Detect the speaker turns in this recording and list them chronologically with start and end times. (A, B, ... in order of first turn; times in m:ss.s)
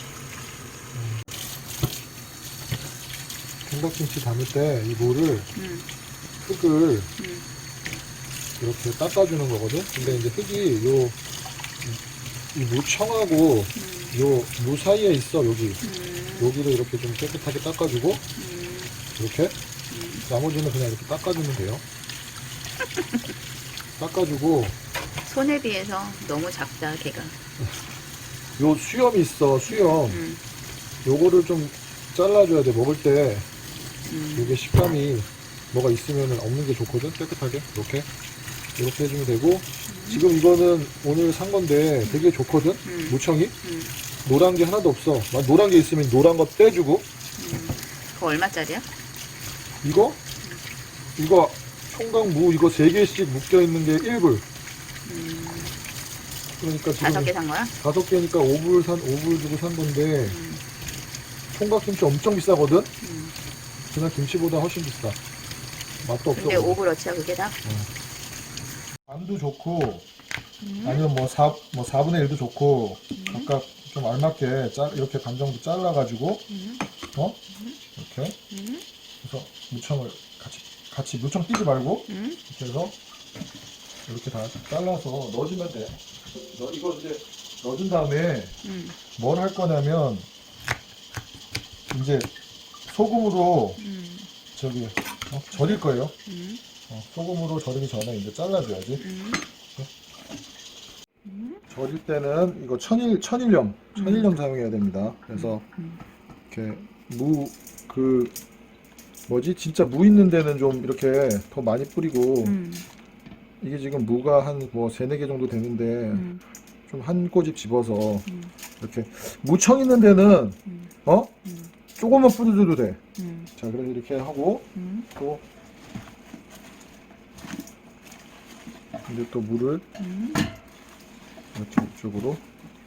0:03.7-0:05.5 A
0:05.6-0:05.9 B
0:06.4-0:07.1 A
0:07.2-0:07.5 B
0:08.6-0:11.2 A
0:10.0-0:10.3 B
0:12.5-0:15.8 A
0:13.8-0:14.2 B
0:15.8-0:16.6 B
0:16.4-0:18.2 A
0:18.4-0:18.9 B
0:19.2-0:19.6 A
0:19.9-0:20.2 B
0:20.3-0:21.8 A
0:22.9-0:23.2 B
0:24.0-0:24.8 A
0:25.2-0:27.3 B
0:28.6-0:30.2 A
0:29.7-0:30.4 B
0:31.0-0:33.5 A
0:34.1-0:34.6 B
0:34.4-0:38.1 A
0:38.8-0:43.5 A
0:39.9-0:40.2 B
0:42.0-0:42.3 B
0:42.8-0:43.9 B
0:44.2-0:47.0 A
0:47.4-0:48.9 B
0:49.8-0:50.2 A
0:51.2-0:54.4 A
0:55.0-0:55.8 B
0:56.6-1:00.4 A
0:57.0-0:57.7 B
1:00.2-1:00.6 B
1:01.5-1:02.9 A
1:03.0-1:03.3 B
1:03.9-1:05.2 A
1:06.0-1:06.8 A
1:06.3-1:07.6 B
1:09.1-1:10.1 A
1:10.6-1:11.0 B
1:10.8-1:16.5 A
1:13.2-1:13.5 B
1:16.5-1:16.8 B
1:17.2-1:17.4 A
1:17.5-1:17.8 B
1:18.0-1:18.4 A
1:18.5-1:18.8 B
1:19.2-1:23.0 A
1:22.1-1:22.4 B
1:24.1-1:26.0 A
1:26.5-1:28.5 A
1:28.6-1:29.0 B
1:29.2-1:30.3 A
1:31.9-1:32.3 A
1:32.9-1:33.8 A
1:33.8-1:34.3 B
1:34.5-1:36.1 A
1:35.5-1:36.6 B
1:36.9-1:39.0 A
1:39.0-1:39.4 B
1:41.2-1:41.6 B
1:41.7-1:45.6 A
1:44.0-1:44.3 B
1:45.3-1:46.0 B
1:46.5-1:48.4 A
1:49.3-1:52.6 A
1:52.4-1:52.9 B
1:53.6-1:56.3 A
1:56.1-1:56.4 B
1:56.9-1:58.3 A
1:58.3-1:58.5 B
1:58.8-2:01.4 A
2:00.7-2:00.9 B
2:01.4-2:01.7 B
2:02.0-2:03.0 A
2:03.2-2:03.5 B
2:03.6-2:05.4 A
2:04.8-2:05.1 B
2:09.1-2:09.8 A
2:10.0-2:10.5 B
2:11.6-2:12.4 A